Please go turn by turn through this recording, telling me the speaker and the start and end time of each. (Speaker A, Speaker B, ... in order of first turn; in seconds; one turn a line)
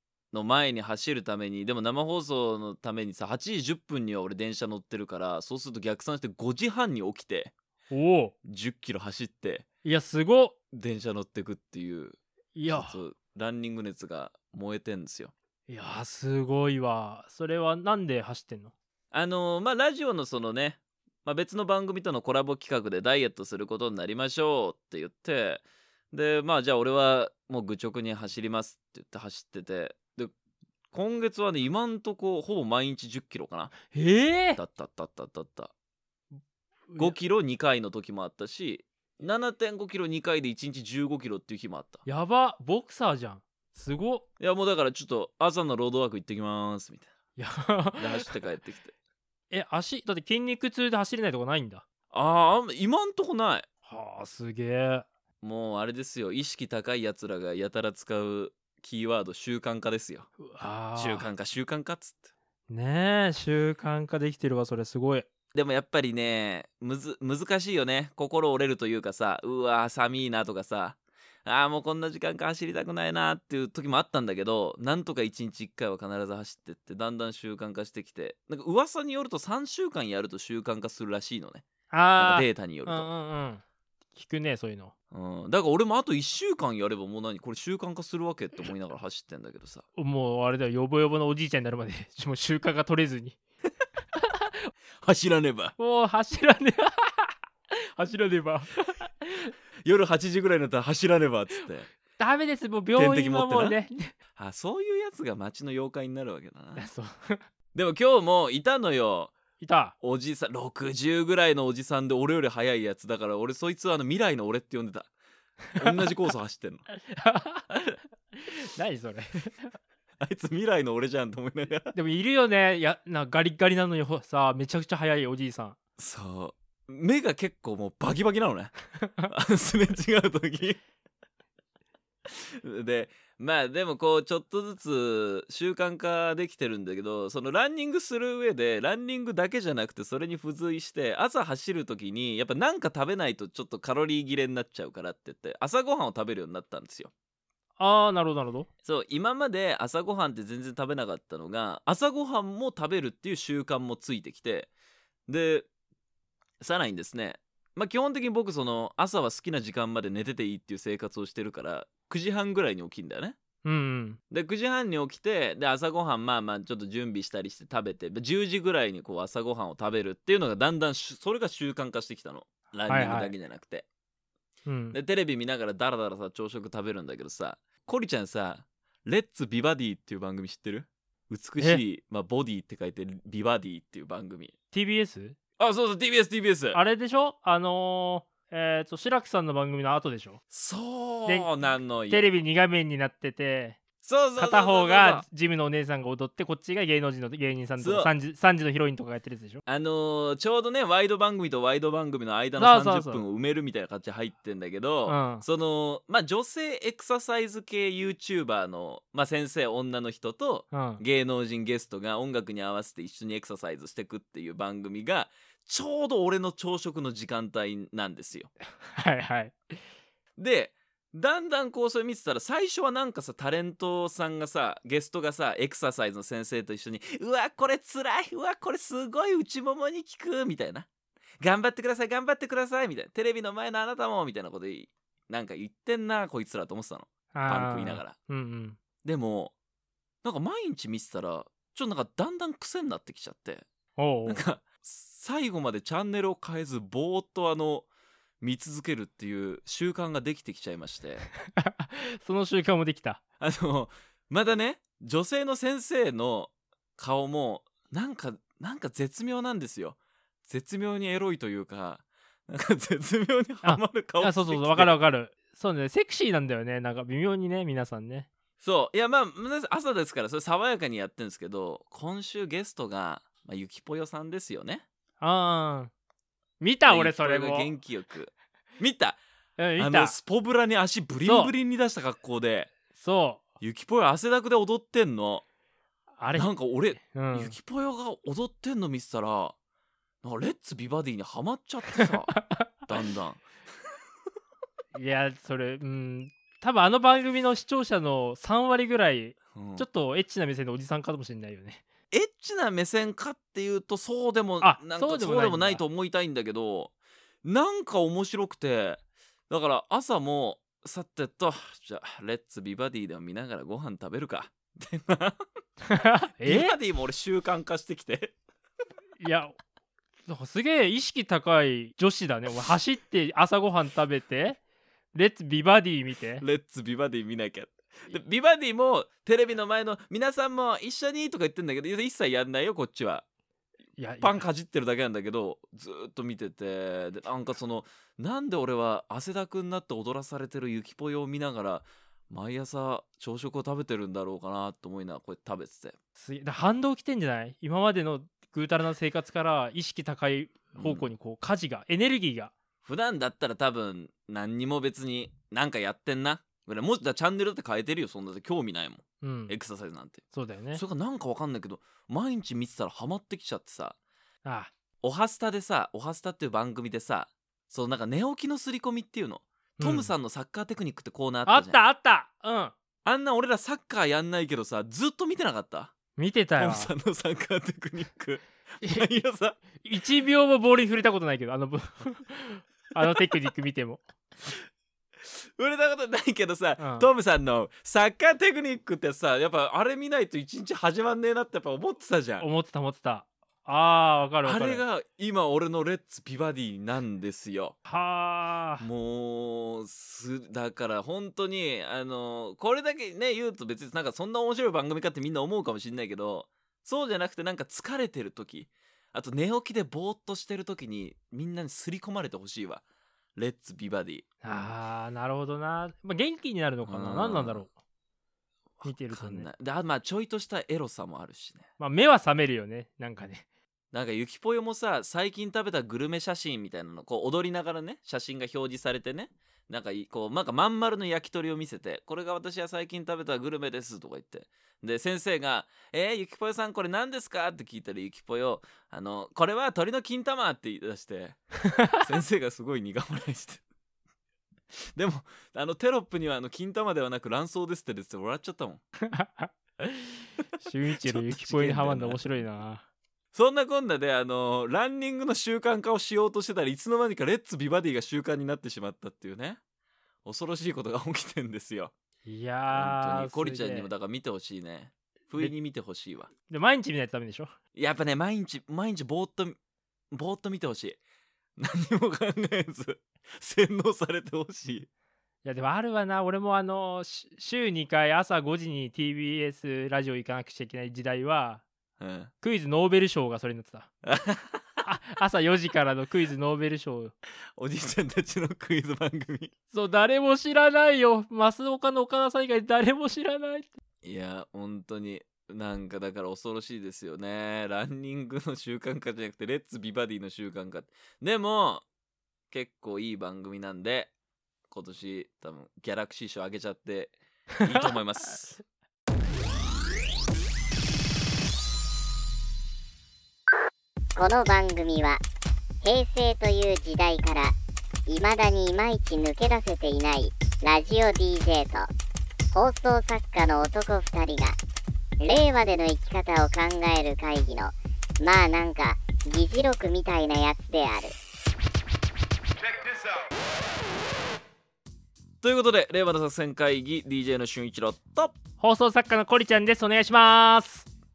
Speaker A: 0.3-7.5
Speaker B: 7.9-8.3
Speaker A: 8.4-9.6
Speaker B: 9.8-10.6
Speaker A: 10.7-12.2
Speaker B: 12.5-13.0
Speaker A: 12.7-15.3
Speaker B: 15.7-18.7
Speaker A: 19.1-30.3
Speaker A: 30.9-33.8
Speaker B: 33.9-34.6
Speaker A: 34.5-35.7
Speaker B: 36.9-37.1
Speaker A: 37.0-42.0
Speaker B: 42.0-44.2
Speaker A: 44.4-47.1
Speaker B: 47.4-48.3
Speaker A: 48.0-48.9
Speaker B: 49.5-51.8
Speaker A: 52.1-53.7
Speaker B: 53.8-55.1
Speaker A: 55.4-60.3
Speaker B: 60.4-61.3
Speaker A: 61.0-62.3
Speaker B: 62.7-65.3
Speaker A: 65.5-81.7
Speaker B: 81.9-83.6
Speaker A: 82.2-83.1
Speaker B: 84.1-84.9
Speaker A: 85.1-89.8
Speaker B: 90.0-93.4
Speaker B: 94.2-94.7
Speaker A: 95.0-95.7
Speaker B: 95.8-99.5
Speaker A: 99.8-101.9
Speaker B: 102.2-104.1
Speaker A: 103.0-103.8
Speaker A: 104.3-106.8
Speaker B: 106.8-107.4
Speaker A: 107.7-109.3
Speaker B: 109.6-109.9
Speaker A: 110.0-115.1
Speaker A: 115.7-116.8
Speaker B: 117.0-117.7
Speaker B: 118.4-119.7
Speaker A: 120.2-121.9
Speaker B: 121.9-125.8
Speaker A: 126.0-128.7
Speaker B: 129.0-129.3
Speaker A: 129.2-130.8
Speaker A: 132.2-147.1
Speaker B: 147.8-148.7
Speaker A: 148.8-154.7
Speaker A: 155.3-155.7
Speaker A: 156.6-163.3
Speaker B: 163.6-164.2
Speaker A: 164.3-173.8
Speaker B: 172.9-173.3
Speaker B: 174.7-174.9
Speaker A: 174.9-184.5
Speaker B: 184.7-185.3
Speaker A: 185.6-186.8
Speaker B: 186.7-190.4
Speaker A: 190.5-192.2
Speaker B: 192.1-193.8
Speaker A: 194.0-195.2
Speaker B: 194.4-199.6
Speaker A: 197.8-198.1
Speaker A: 199.7-218.5
Speaker B: 202.6-203.2
Speaker B: 205.1-205.4
Speaker B: 210.7-211.0
Speaker B: 218.8-219.8
Speaker A: 220.4-230.9
Speaker A: 231.4-238.1
Speaker B: 237.3-238.8
Speaker A: 239.0-239.5
Speaker A: 240.2-243.7
Speaker B: 244.0-244.4
Speaker A: 244.2-247.9
Speaker A: 248.4-251.2
Speaker B: 251.5-253.2
Speaker A: 253.4-264.9
Speaker B: 263.6-268.3
Speaker A: 268.6-274.8
Speaker B: 275.2-275.9
Speaker B: 276.6-277.7
Speaker A: 276.9-279.2
Speaker B: 279.6-280.1
Speaker A: 279.8-282.7
Speaker B: 281.2-281.5
Speaker B: 282.9-283.4
Speaker A: 283.6-285.4
Speaker B: 286.2-287.5
Speaker A: 286.3-289.5
Speaker A: 290.2-293.4
Speaker B: 292.1-292.6
Speaker B: 294.9-301.8
Speaker A: 299.5-299.8
Speaker A: 302.1-306.9
Speaker B: 304.6-305.8
Speaker A: 307.4-315.4
Speaker B: 315.9-316.8
Speaker A: 316.4-318.3
Speaker B: 319.2-319.6
Speaker B: 320.2-324.6
Speaker B: 325.1-326.4
Speaker A: 326.4-333.2
Speaker B: 334.0-334.4
Speaker A: 334.2-346.0
Speaker B: 346.2-352.5
Speaker A: 350.8-351.1
Speaker A: 352.8-360.2
Speaker B: 359.2-359.5
Speaker B: 360.3-360.8
Speaker A: 360.7-363.9
Speaker B: 364.4-364.7
Speaker A: 365.0-371.8
Speaker B: 369.8-370.1
Speaker B: 371.5-372.7
Speaker A: 373.0-375.9
Speaker B: 376.2-376.9
Speaker A: 376.6-379.6
Speaker B: 379.8-384.0
Speaker A: 385.2-392.5
Speaker B: 386.8-387.1
Speaker B: 392.4-394.8
Speaker A: 394.4-397.7
Speaker B: 397.9-398.9
Speaker A: 398.8-412.8
Speaker A: 413.4-414.2
Speaker B: 414.4-417.7
Speaker A: 416.8-417.6
Speaker A: 418.8-421.7
Speaker B: 418.8-419.5
Speaker B: 421.8-423.4
Speaker A: 423.9-441.4
Speaker B: 441.7-442.0
Speaker A: 441.9-443.6
Speaker A: 444.9-448.8
Speaker B: 449.0-452.8
Speaker A: 450.9-452.4
Speaker A: 453.3-459.6
Speaker A: 460.2-461.9
Speaker B: 462.2-463.9
Speaker A: 462.7-466.3
Speaker B: 466.5-467.5
Speaker A: 467.7-469.6
Speaker A: 470.1-471.0
Speaker A: 471.6-474.9
Speaker B: 475.4-481.6
Speaker A: 482.0-482.3
Speaker B: 482.4-483.9
Speaker A: 484.0-484.8
Speaker B: 484.8-487.1
Speaker A: 487.6-489.5
Speaker B: 489.7-493.8
Speaker A: 494.0-501.8
Speaker A: 502.5-504.1
Speaker A: 504.7-508.6
Speaker B: 507.6-507.9
Speaker C: 514.1-515.2
Speaker C: 515.8-517.5
Speaker C: 518.1-521.9
Speaker C: 522.5-524.6
Speaker C: 525.2-531.1
Speaker A: 535.4-538.4
Speaker B: 538.6-540.9